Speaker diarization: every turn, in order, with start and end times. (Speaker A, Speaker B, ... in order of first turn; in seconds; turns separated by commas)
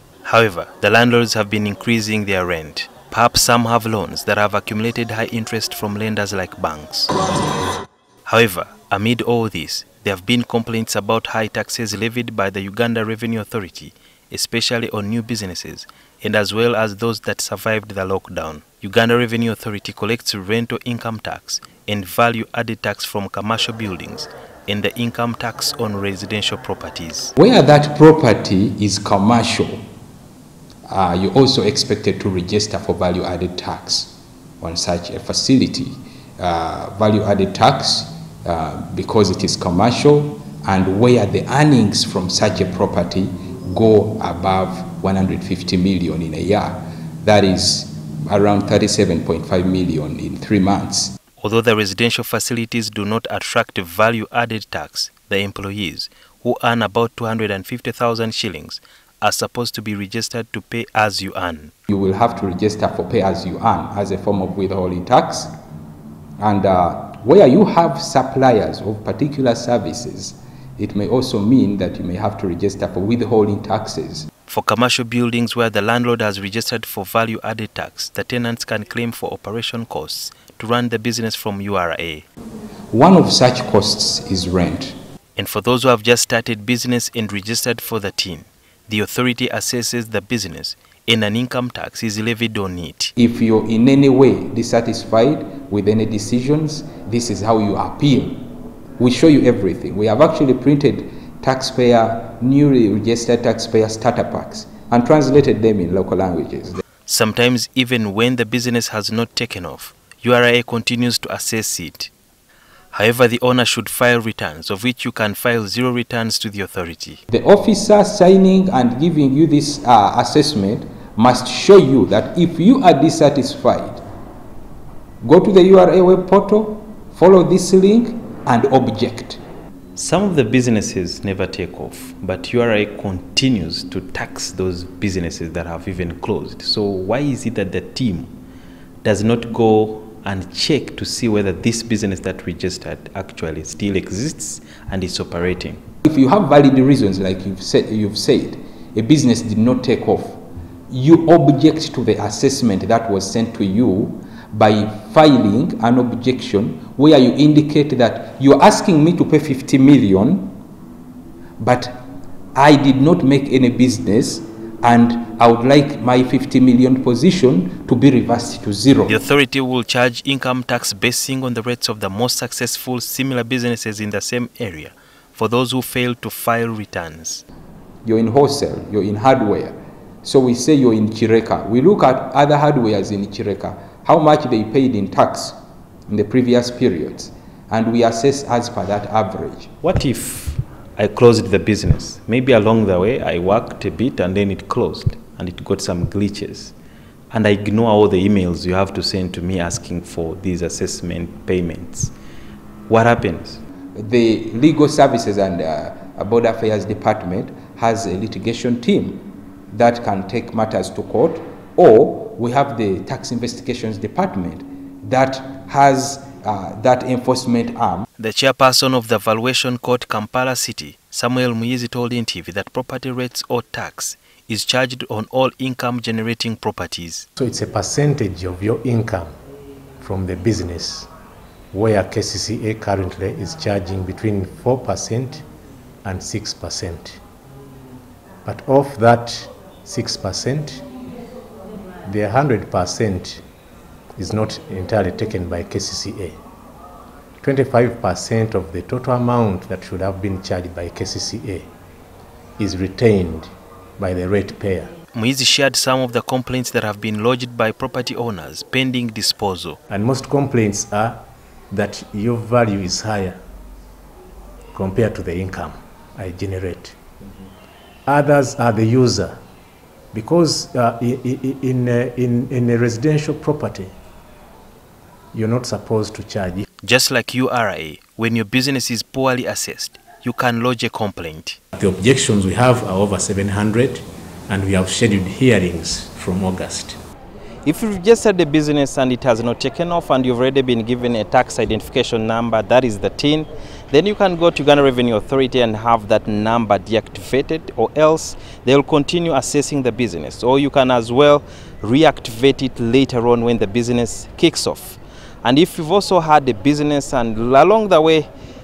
Speaker A: 0.2-7.1, Speaker A: 8.2-27.3, Speaker B: 27.4-29.8, Speaker B: 30.9-51.1, Speaker A: 51.4-61.7, Speaker B: 61.9-65.5, Speaker B: 66.4-74.3, Speaker A: 74.5-82.3, Speaker B: 82.9-85.0, Speaker A: 85.3-93.1, Speaker B: 93.2-106.8, Speaker A: 107.0-112.1, Speaker A: 112.9-117.2, Speaker B: 117.3-124.0, Speaker B: 125.2-129.4, Speaker A: 129.9-138.3, Speaker A: 139.0-145.8, Speaker B: 146.0-160.6, Speaker B: 161.6-162.0, Speaker B: 162.5-169.2, Speaker A: 169.1-177.4, Speaker B: 178.1-185.6, Speaker B: 186.1-189.7, Speaker A: 189.8-196.7, Speaker A: 197.3-202.1, Speaker A: 202.9-203.6, Speaker B: 203.9-218.0, Speaker A: 218.2-227.3, Speaker C: 227.4-229.3, Speaker C: 230.0-231.1, Speaker C: 231.7-235.4, Speaker C: 236.0-237.2, Speaker C: 238.4-240.8, Speaker C: 242.1-243.4, Speaker C: 244.2-246.4, Speaker C: 247.4-251.7, Speaker C: 252.6-254.9, Speaker A: 255.1-259.8, Speaker C: 259.9-261.2, Speaker C: 261.7-263.4, Speaker C: 264.7-266.9, Speaker C: 268.1-269.3, Speaker C: 270.1-273.9, Speaker C: 275.3-276.6, Speaker A: 276.8-281.6, Speaker C: 281.7-287.0, Speaker A: 287.6-308.3